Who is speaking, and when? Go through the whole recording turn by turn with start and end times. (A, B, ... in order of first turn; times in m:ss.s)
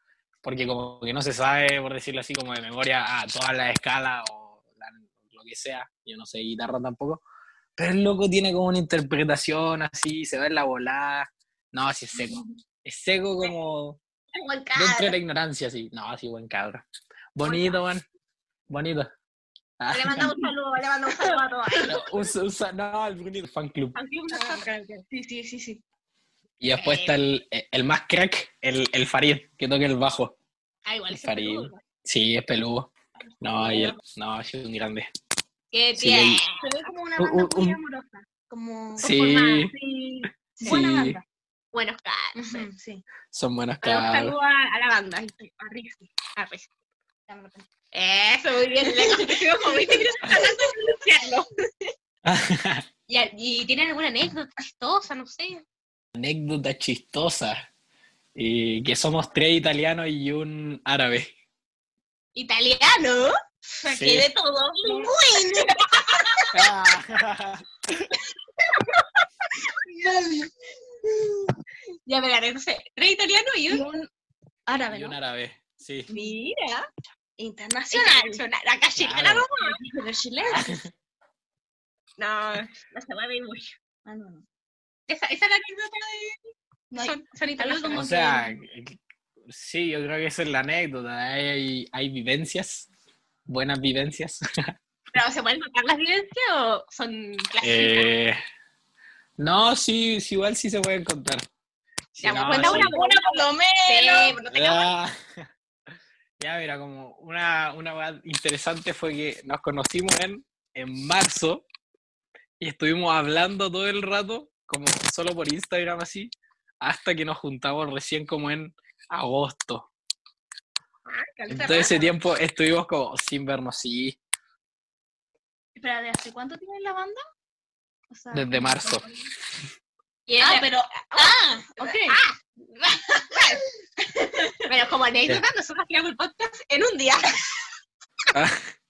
0:00.4-0:07.2 A
0:07.8-0:14.0 A
0:14.3-0:15.2 B
0:14.7-0:16.8 A
0:17.4-0:18.0 A
0:17.4-0:17.8 B
0:18.7-0:19.1 A
0:19.8-0:20.3 A
0:19.9-0:22.0 B
0:21.9-0:24.0 A
0:23.9-0:24.6 B
0:24.3-0:25.8 C
0:26.6-0:30.3 A
0:26.8-0:27.2 B
0:30.8-0:31.8 B
0:31.1-0:32.9 A
0:33.2-0:33.8 C
0:33.4-0:35.1 A
0:35.7-0:36.7 B
0:36.0-0:36.4 A
0:36.6-0:39.1 C
0:37.2-0:37.8 A
0:39.0-0:39.7 A
0:39.0-0:40.8 B
0:39.9-0:41.2 C
0:40.6-0:41.2 A
0:41.7-0:42.6 B
0:42.4-0:43.0 C
0:43.3-0:44.4 A
0:43.8-0:46.7 B
0:47.3-0:47.7 C
0:47.9-0:51.9 B
0:52.2-0:52.8 A
0:53.1-0:55.6 B
0:56.1-0:57.6 A
0:58.4-1:01.3 A
1:02.3-1:03.3 B
1:03.8-1:04.3 A
1:03.9-1:06.6 B
1:06.5-1:08.1 A
1:08.7-1:09.0 B
1:09.8-1:10.5 C
1:12.0-1:13.8 B
1:13.7-1:14.1 C
1:14.7-1:15.2 C
1:14.9-1:16.1 A
1:16.1-1:16.4 C
1:16.1-1:16.9 B
1:17.4-1:18.4 C
1:17.9-1:19.8 B
1:19.0-1:19.4 A
1:19.6-1:20.8 C
1:20.4-1:20.9 A
1:22.2-1:23.7 B
1:24.0-1:24.4 C
1:25.1-1:28.0 B
1:26.9-1:28.6 C
1:27.9-1:29.0 A
1:29.5-1:32.9 A
1:33.5-1:34.4 A
1:35.1-1:38.1 B
1:37.6-1:38.4 A
1:39.4-1:41.4 A
1:42.1-1:42.9 A
1:42.2-1:44.9 B
1:42.3-1:44.4 C
1:44.5-1:45.1 A
1:46.4-1:51.6 A
1:52.6-1:59.9 A
2:01.0-2:02.1 B
2:01.5-2:04.2 A
2:05.8-2:07.2 C
2:08.1-2:09.1 C
2:08.3-2:09.0 A
2:10.3-2:13.6 B
2:10.4-2:12.2 C
2:14.0-2:14.5 C
2:14.6-2:17.4 B